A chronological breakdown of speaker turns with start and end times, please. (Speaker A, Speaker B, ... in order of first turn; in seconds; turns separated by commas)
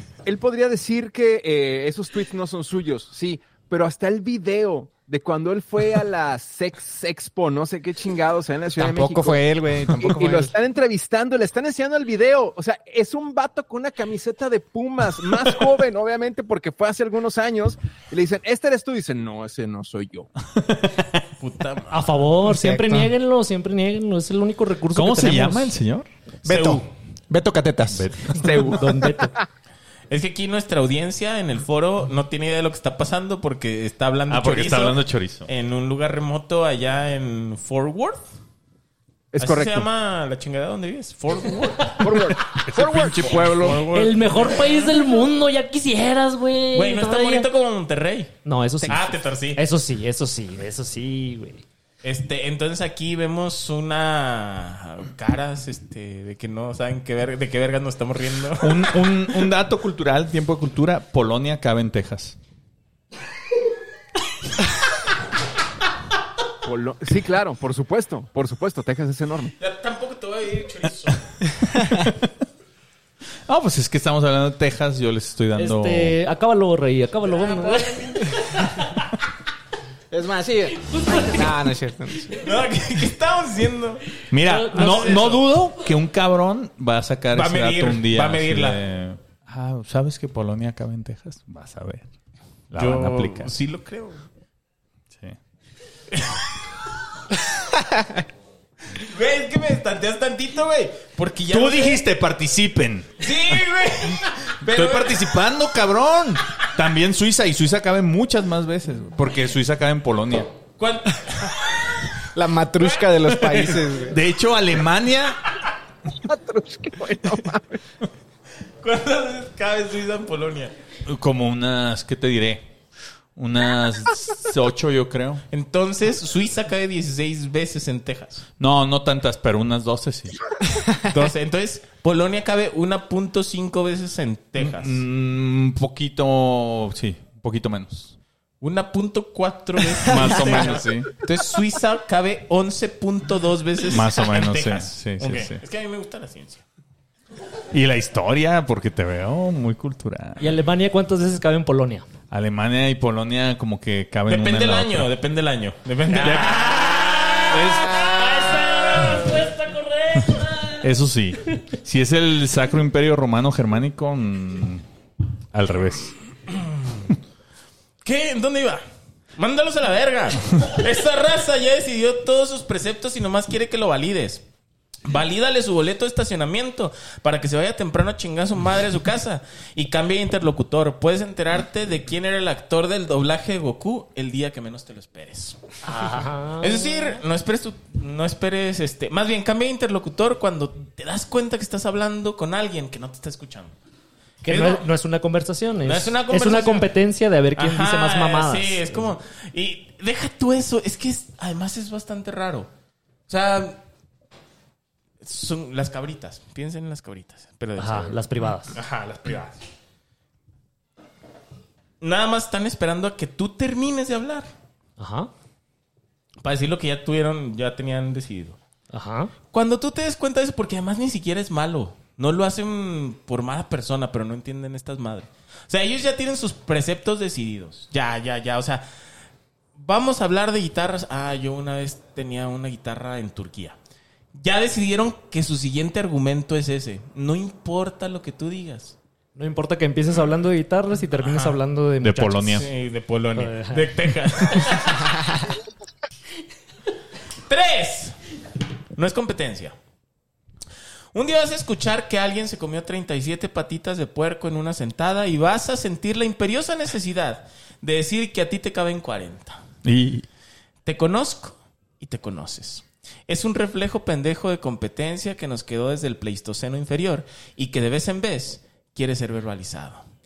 Speaker A: 0.2-20.3, Speaker B: 8.8-10.5, Speaker C: 20.5-21.2, Speaker D: 21.4-22.1, Speaker E: 21.9-25.7, Speaker B: 22.4-23.1, Speaker C: 24.9-26.1, Speaker B: 26.4-28.8, Speaker D: 26.4-26.9, Speaker C: 27.9-28.8, Speaker A: 28.4-28.8, Speaker E: 28.6-29.3, Speaker D: 30.1-38.2, Speaker C: 34.3-35.5, Speaker A: 39.3-39.9, Speaker D: 39.4-42.3, Speaker A: 42.0-43.8, Speaker C: 42.6-43.8, Speaker D: 43.3-45.1, Speaker E: 43.9-47.5, Speaker D: 46.7-49.6, Speaker E: 48.4-51.6, Speaker D: 52.0-59.1, Speaker C: 58.6-62.4, Speaker A: 66.6-69.5, Speaker D: 69.6-71.3, Speaker C: 73.5-76.1, Speaker E: 75.6-79.0, Speaker D: 77.3-78.4, Speaker B: 80.1-82.4, Speaker E: 80.7-81.6, Speaker D: 82.4-85.4, Speaker C: 84.3-92.1, Speaker E: 84.4-85.4, Speaker D: 87.3-88.8, Speaker C: 92.7-93.5, Speaker D: 92.8-94.2, Speaker C: 95.1-95.4, Speaker D: 96.1-96.4, Speaker D: 98.9-102.0, Speaker C: 101.5-103.3, Speaker D: 103.2-105.3, Speaker C: 104.6-110.5, Speaker D: 110.8-112.1, Speaker B: 112.3-114.2, Speaker D: 112.8-113.7, Speaker C: 114.0-115.4, Speaker A: 116.2-117.8, Speaker D: 118.8-120.7, Speaker C: 121.0-122.7, Speaker C: 123.3-125.4, Speaker D: 125.5-128.5, Speaker C: 128.6-130.3, Speaker D: 131.0-135.0, Speaker C: 134.6-138.1, Speaker D: 138.6-146.6, Speaker C: 140.0-141.1, Speaker C: 143.9-145.6, Speaker C: 147.7-150.4, Speaker E: 150.4-152.1, Speaker C: 152.3-155.1, Speaker D: 154.3-159.2, Speaker C: 156.2-158.2, Speaker E: 156.3-160.9, Speaker C: 160.8-164.8, Speaker C: 165.5-166.1, Speaker D: 168.0-168.8, Speaker D: 169.4-174.4, Speaker D: 175.0-185.6, Speaker E: 185.8-187.2, Speaker D: 186.6-193.7, Speaker E: 194.4-199.0, Speaker D: 194.4-194.9, Speaker D: 195.8-196.9, Speaker D: 197.6-202.7, Speaker D: 203.3-203.8, Speaker D: 205.2-209.6, Speaker E: 207.8-208.8, Speaker D: 212.0-214.5, Speaker E: 215.0-215.3, Speaker D: 216.4-218.6, Speaker E: 218.9-219.3, Speaker D: 219.5-228.8, Speaker D: 229.8-233.8, Speaker D: 234.3-238.9, Speaker E: 239.3-242.6, Speaker D: 241.1-241.6, Speaker C: 242.0-242.7, Speaker D: 242.6-245.2, Speaker E: 243.3-243.9, Speaker D: 247.5-248.2, Speaker D: 248.9-249.7, Speaker D: 251.1-259.6, Speaker C: 259.8-260.3, Speaker D: 260.9-270.0